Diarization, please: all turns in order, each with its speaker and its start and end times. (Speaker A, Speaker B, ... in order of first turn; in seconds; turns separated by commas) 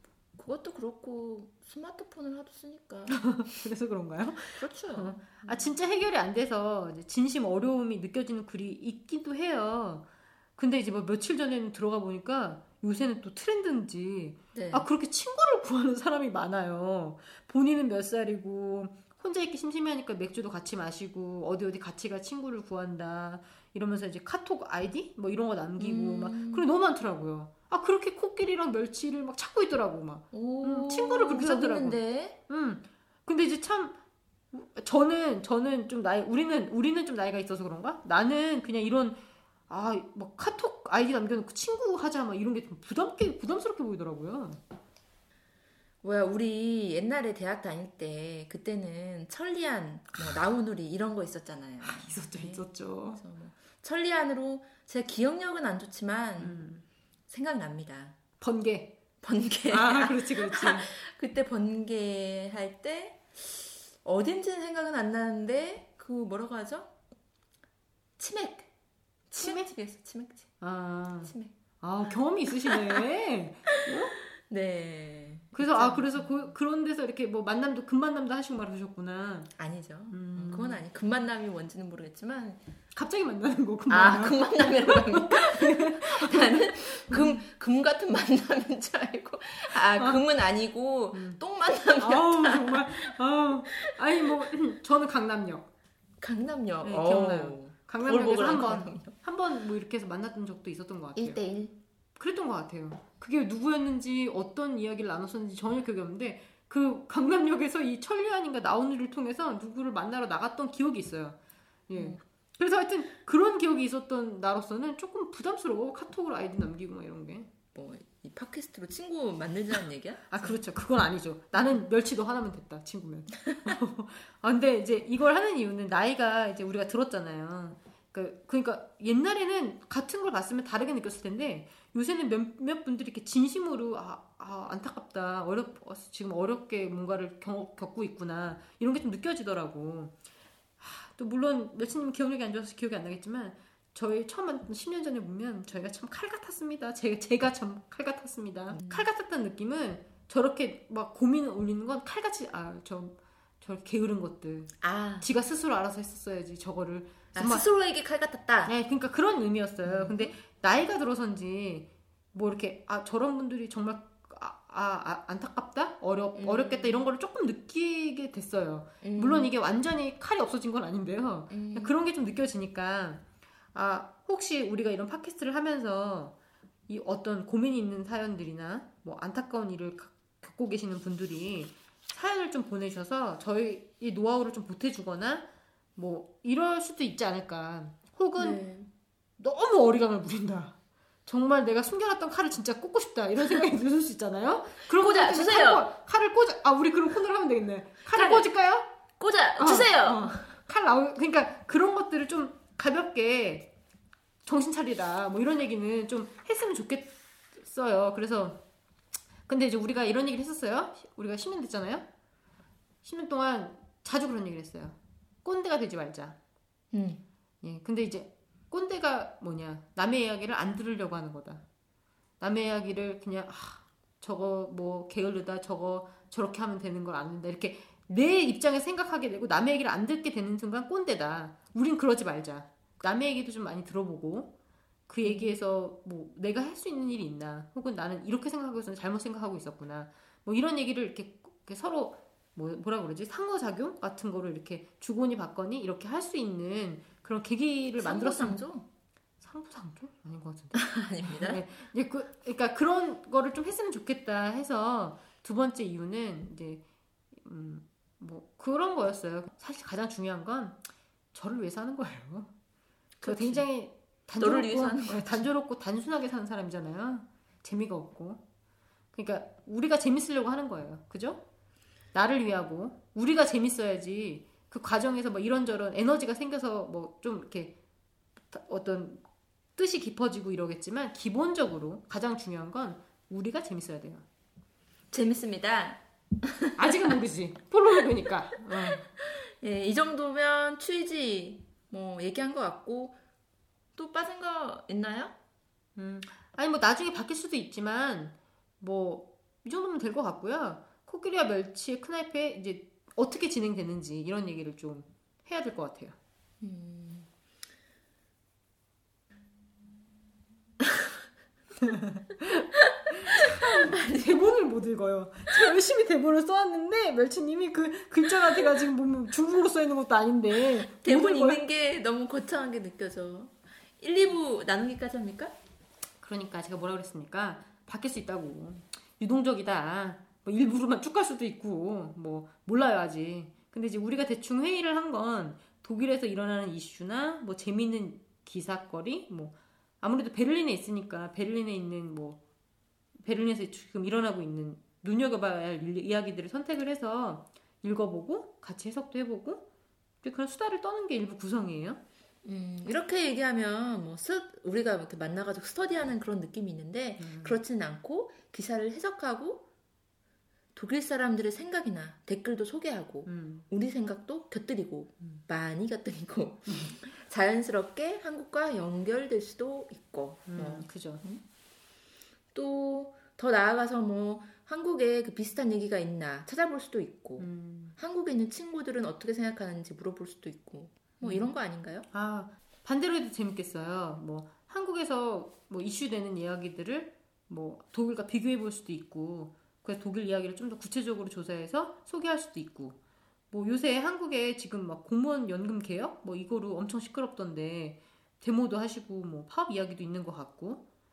Speaker A: 0.4-3.4, Speaker B: 3.1-34.0, Speaker A: 4.6-5.6, Speaker A: 14.5-14.9, Speaker A: 25.8-26.7, Speaker A: 30.3-32.4, Speaker B: 34.5-44.6, Speaker A: 46.0-56.6, Speaker B: 51.8-53.2, Speaker B: 56.4-56.8, Speaker A: 57.3-58.2, Speaker B: 58.4-59.0, Speaker A: 59.2-67.0, Speaker B: 59.7-60.9, Speaker A: 68.2-68.7, Speaker A: 69.3-70.5, Speaker B: 69.4-69.7, Speaker B: 70.6-74.2, Speaker A: 71.2-71.5, Speaker A: 72.7-73.0, Speaker A: 73.7-76.3, Speaker B: 75.5-79.5, Speaker A: 79.6-82.6, Speaker B: 80.1-80.8, Speaker B: 82.9-87.4, Speaker A: 83.9-93.1, Speaker B: 89.7-90.2, Speaker B: 91.1-91.4, Speaker B: 92.0-95.7, Speaker A: 93.7-94.4, Speaker A: 96.2-99.2, Speaker B: 96.8-101.4, Speaker A: 101.2-101.8, Speaker B: 102.2-111.4, Speaker B: 111.9-117.5, Speaker A: 111.9-112.2, Speaker A: 117.7-120.6, Speaker B: 120.3-140.2, Speaker B: 140.8-157.7, Speaker A: 148.7-149.1, Speaker A: 154.8-155.3, Speaker A: 157.3-158.7, Speaker B: 158.7-176.3, Speaker A: 159.8-160.3, Speaker A: 166.3-167.1, Speaker A: 169.0-169.5, Speaker A: 171.5-172.0, Speaker B: 176.9-188.6, Speaker A: 188.4-188.9, Speaker B: 189.4-198.9, Speaker A: 194.8-195.9, Speaker A: 198.1-198.5, Speaker A: 199.2-200.6, Speaker B: 199.6-203.7, Speaker B: 204.4-208.6, Speaker B: 209.5-212.1, Speaker B: 213.0-216.4, Speaker A: 216.9-217.2, Speaker B: 217.6-221.6, Speaker B: 222.4-234.5, Speaker B: 235.1-248.6, Speaker A: 235.2-235.6, Speaker A: 248.0-248.9, Speaker B: 249.4-256.8, Speaker A: 250.7-251.6, Speaker B: 257.4-260.8, Speaker B: 261.3-262.5, Speaker A: 263.2-263.7, Speaker B: 263.2-268.4, Speaker A: 264.4-265.5, Speaker B: 269.1-271.4, Speaker B: 272.1-277.8, Speaker B: 278.5-279.2, Speaker B: 279.8-284.2, Speaker A: 285.1-287.2, Speaker B: 286.8-289.1, Speaker A: 288.8-293.2, Speaker A: 294.0-295.4, Speaker B: 296.0-306.2, Speaker A: 306.6-307.3, Speaker B: 311.8-312.6, Speaker B: 313.3-321.6, Speaker A: 313.3-314.6, Speaker A: 320.6-325.5, Speaker B: 326.2-342.4, Speaker B: 343.2-349.6, Speaker B: 350.2-352.0, Speaker A: 352.4-359.7, Speaker B: 357.2-357.6, Speaker A: 360.8-371.4, Speaker B: 363.3-363.7, Speaker B: 366.7-366.9, Speaker B: 370.5-371.2, Speaker A: 372.5-382.1, Speaker B: 377.4-378.0, Speaker B: 381.2-381.5, Speaker B: 382.1-393.0, Speaker B: 393.5-400.8